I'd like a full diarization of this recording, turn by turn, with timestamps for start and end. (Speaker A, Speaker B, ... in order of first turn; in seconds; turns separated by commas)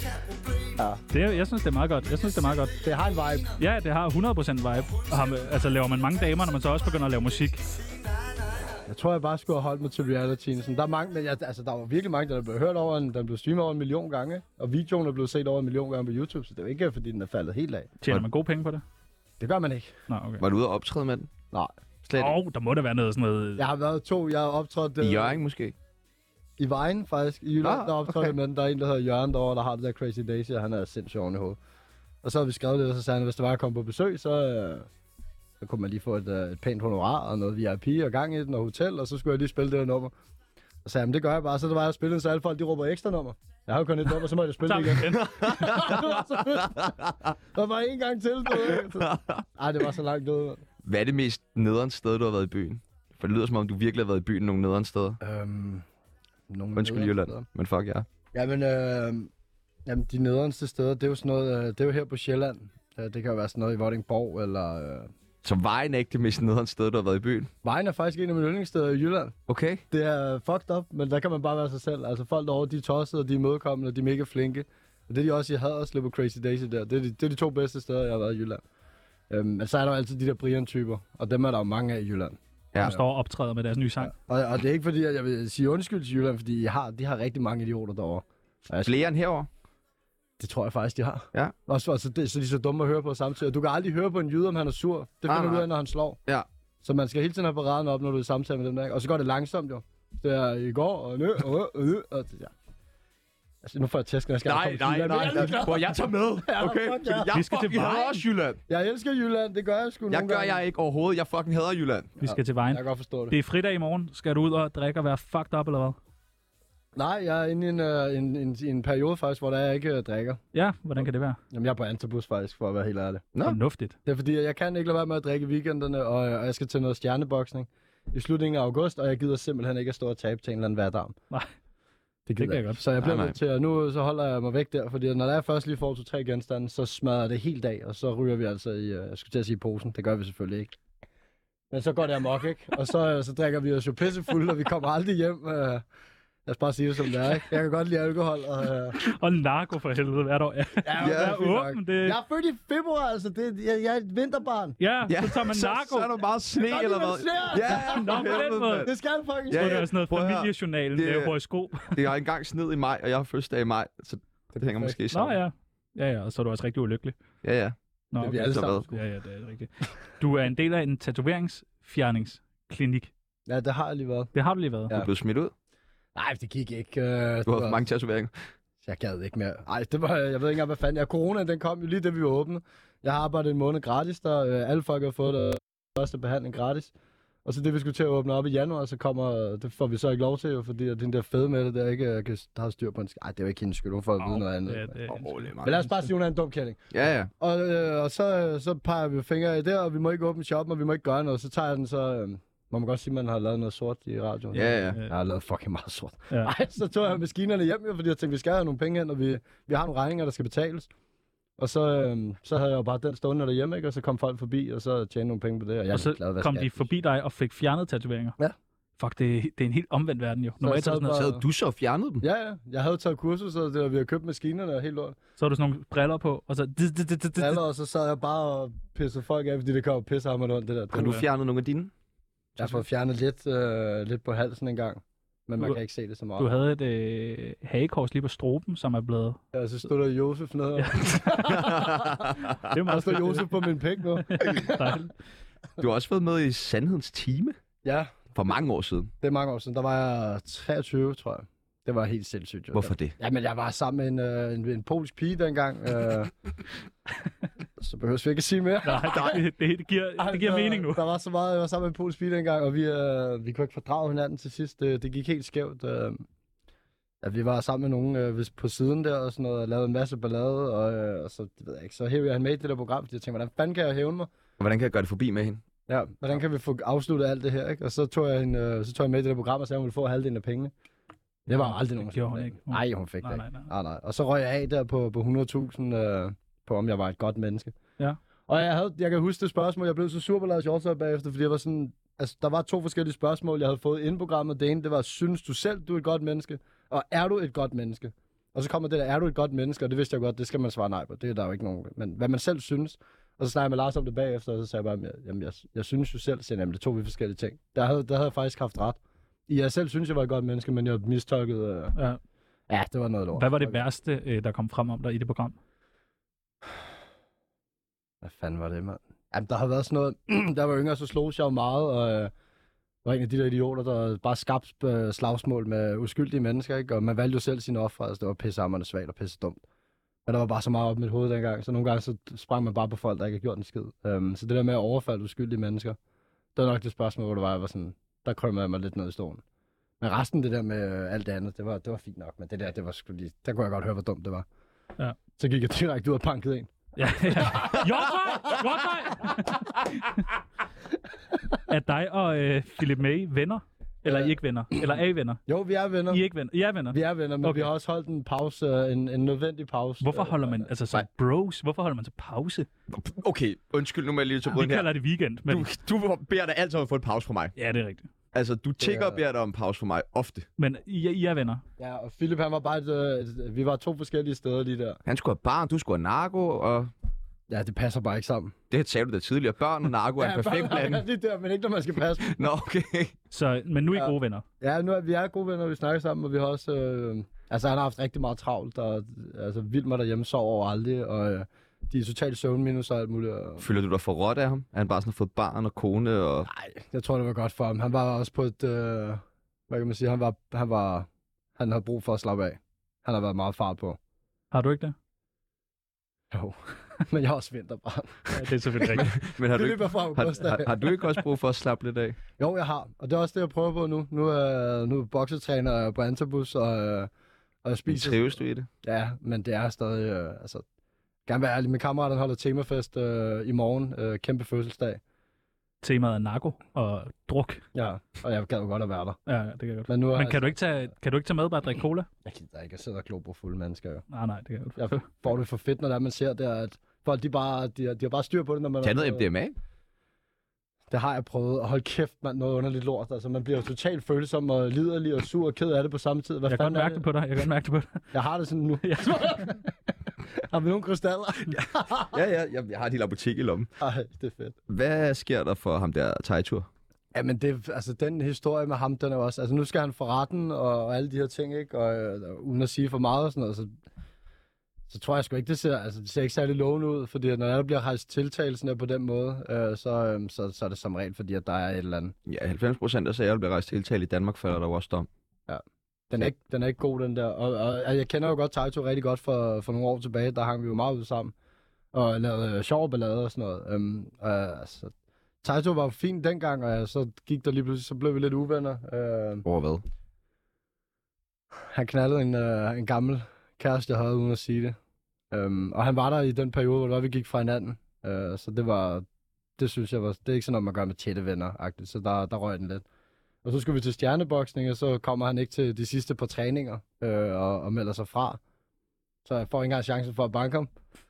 Speaker A: 0.6-1.0, Speaker B: 1.1-2.8, Speaker A: 2.8-3.6, Speaker B: 3.5-7.7, Speaker A: 8.8-17.9, Speaker B: 18.0-18.8, Speaker A: 19.4-19.9, Speaker B: 20.1-20.4, Speaker C: 20.4-21.3, Speaker C: 22.0-22.4, Speaker B: 22.1-23.6, Speaker A: 23.6-25.4, Speaker C: 25.0-25.8, Speaker A: 26.6-31.6, Speaker C: 27.6-28.3, Speaker A: 32.2-34.9, Speaker A: 35.6-40.1, Speaker A: 40.8-47.0, Speaker B: 44.6-46.0, Speaker C: 45.1-47.3, Speaker A: 47.5-50.6, Speaker C: 48.7-49.4, Speaker C: 50.8-55.2, Speaker A: 55.2-55.8, Speaker A: 56.5-57.5, Speaker C: 56.8-58.1, Speaker A: 58.3-59.3, Speaker A: 59.9-65.1, Speaker C: 65.4-67.5, Speaker A: 67.6-69.3, Speaker C: 69.5-69.8, Speaker A: 69.9-78.6, Speaker A: 79.3-83.0, Speaker B: 82.8-84.1, Speaker A: 84.0-89.1, Speaker C: 88.8-89.5, Speaker A: 90.4-96.2, Speaker C: 95.3-95.7, Speaker A: 96.8-102.5, Speaker A: 103.6-107.3, Speaker C: 104.4-108.6, Speaker B: 107.3-108.2, Speaker A: 108.7-110.6, Speaker C: 110.1-112.1, Speaker A: 112.2-113.3, Speaker B: 112.2-116.0, Speaker A: 116.9-120.4, Speaker B: 120.5-121.4, Speaker A: 121.5-123.2, Speaker B: 123.4-124.0, Speaker A: 124.0-131.2, Speaker A: 132.3-140.8, Speaker B: 132.4-132.8, Speaker C: 133.0-133.4, Speaker A: 141.7-145.8, Speaker A: 146.4-149.0, Speaker B: 149.0-152.2, Speaker A: 150.8-154.8, Speaker C: 151.0-151.3, Speaker B: 154.8-156.2, Speaker C: 155.1-158.9, Speaker A: 156.6-159.9, Speaker B: 157.6-158.9, Speaker C: 159.5-161.3, Speaker B: 159.5-162.0, Speaker C: 161.9-165.4, Speaker A: 164.5-165.0, Speaker B: 165.1-167.1, Speaker C: 167.4-167.8, Speaker B: 168.1-173.1, Speaker A: 168.2-169.0, Speaker C: 168.5-168.8, Speaker A: 173.5-174.3, Speaker B: 174.3-174.9, Speaker C: 174.9-175.5, Speaker A: 176.1-177.8, Speaker C: 177.4-178.3, Speaker A: 178.8-186.9, Speaker A: 187.4-195.0, Speaker B: 194.2-195.4, Speaker C: 195.1-196.0, Speaker A: 195.6-210.9, Speaker C: 196.9-197.3, Speaker C: 204.5-205.0, Speaker B: 204.6-205.1, Speaker A: 211.6-216.9, Speaker B: 215.9-218.4, Speaker B: 219.0-221.3, Speaker A: 220.6-221.4, Speaker C: 221.1-222.2, Speaker A: 222.2-225.2, Speaker B: 225.4-227.6, Speaker A: 227.4-231.2, Speaker C: 230.9-231.9, Speaker A: 232.6-236.5, Speaker B: 236.4-239.4, Speaker A: 239.5-242.1, Speaker B: 240.8-241.9, Speaker C: 241.4-242.7, Speaker B: 242.6-243.7, Speaker A: 242.8-245.0, Speaker B: 244.2-245.1, Speaker C: 245.8-247.6, Speaker A: 247.8-248.1, Speaker C: 248.3-249.1, Speaker A: 249.2-256.3, Speaker C: 252.7-253.1, Speaker A: 257.8-259.4, Speaker B: 258.8-261.0, Speaker A: 260.2-266.2, Speaker A: 267.2-274.3, Speaker C: 274.6-275.6, Speaker A: 275.9-280.7, Speaker A: 281.5-287.8, Speaker B: 281.5-283.7, Speaker A: 288.5-311.9, Speaker A: 312.7-313.8, Speaker B: 313.3-315.6, Speaker A: 318.2-322.3, Speaker A: 323.0-329.6, Speaker A: 330.2-336.0, Speaker A: 336.6-339.4, Speaker A: 340.0-344.4, Speaker A: 345.4-346.7, Speaker B: 346.9-350.2, Speaker A: 347.4-347.7, Speaker B: 351.7-355.4, Speaker A: 354.0-354.9, Speaker A: 355.5-356.2, Speaker B: 356.1-357.7, Speaker A: 356.9-360.7, Speaker B: 360.0-362.7, Speaker C: 362.9-364.9, Speaker B: 364.5-365.7, Speaker C: 365.4-367.5, Speaker B: 367.6-368.1, Speaker C: 368.3-370.4, Speaker A: 368.8-369.2, Speaker B: 370.6-371.6, Speaker A: 371.8-375.0, Speaker C: 375.1-376.9, Speaker A: 377.5-378.5, Speaker C: 378.7-381.0, Speaker A: 380.2-382.4, Speaker C: 382.2-383.1, Speaker B: 383.3-384.4, Speaker A: 383.9-393.6, Speaker C: 393.6-396.5, Speaker A: 396.5-404.0, Speaker B: 404.5-404.9, Speaker A: 406.3-410.7, Speaker B: 408.3-409.2, Speaker C: 408.9-412.2, Speaker A: 412.4-417.1, Speaker A: 417.6-420.6, Speaker C: 417.9-418.7, Speaker A: 421.2-425.0, Speaker B: 425.8-427.6, Speaker A: 427.7-429.2, Speaker B: 429.3-432.1, Speaker A: 429.9-430.6, Speaker A: 432.2-434.0, Speaker B: 434.1-435.0, Speaker A: 434.8-439.2, Speaker C: 438.8-439.6, Speaker A: 440.9-447.0, Speaker B: 446.5-448.0, Speaker A: 448.1-449.7, Speaker B: 448.8-449.5, Speaker A: 450.3-452.2, Speaker C: 452.1-453.7, Speaker A: 453.8-454.6, Speaker C: 454.7-456.7, Speaker A: 457.1-463.7, Speaker A: 464.9-472.1, Speaker C: 472.2-475.1, Speaker A: 475.5-481.3, Speaker A: 481.9-489.4, Speaker C: 489.4-489.8, Speaker A: 491.6-494.8, Speaker A: 495.3-499.1, Speaker A: 499.6-502.8, Speaker A: 503.4-508.4, Speaker A: 509.2-510.7